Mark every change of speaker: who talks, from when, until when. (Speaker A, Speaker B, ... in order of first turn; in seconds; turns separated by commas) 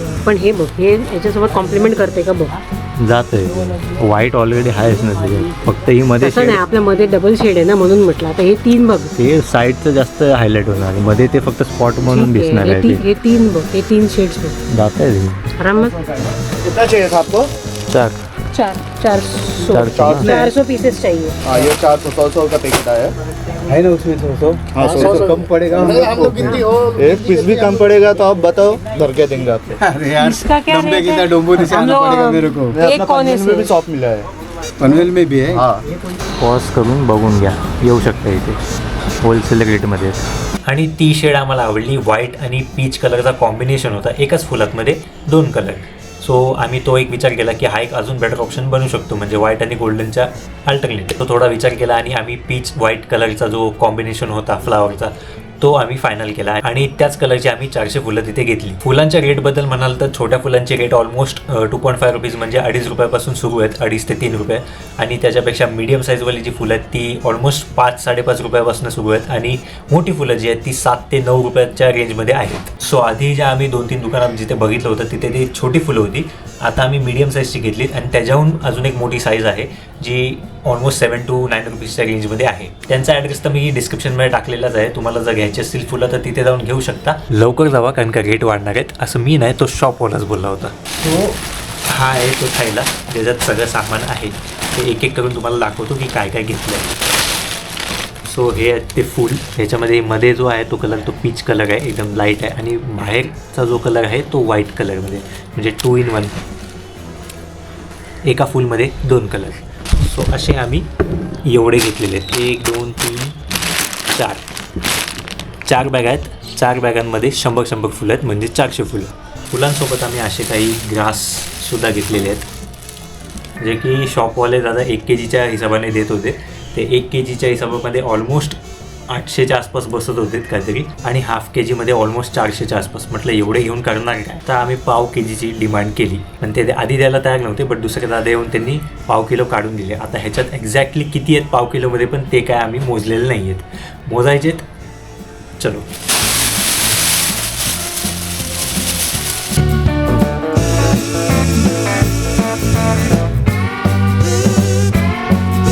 Speaker A: 0.2-2.6, Speaker B: 3.0-6.4, Speaker A: 6.2-9.1, Speaker B: 9.2-13.0, Speaker A: 12.0-14.6, Speaker B: 14.7-15.4, Speaker A: 15.6-15.9, Speaker C: 16.6-17.5, Speaker B: 17.9-18.2, Speaker A: 18.5-21.4, Speaker B: 19.7-20.3, Speaker C: 19.8-20.5, Speaker D: 20.0-20.5, Speaker C: 21.4-23.1, Speaker D: 23.7-27.0, Speaker C: 24.7-29.8, Speaker A: 26.4-26.6, Speaker D: 29.8-32.8, Speaker A: 30.2-33.7, Speaker C: 32.7-34.3, Speaker D: 34.8-35.6, Speaker C: 35.5-35.8, Speaker B: 36.4-38.6, Speaker B: 39.2-40.2, Speaker E: 40.6-91.3, Speaker E: 91.9-97.0, Speaker E: 98.2-106.4, Speaker E: 108.2-110.9, Speaker E: 111.4-113.4, Speaker E: 114.1-114.5, Speaker E: 115.7-122.5, Speaker E: 123.6-128.6, Speaker E: 129.1-144.7, Speaker E: 145.6-145.9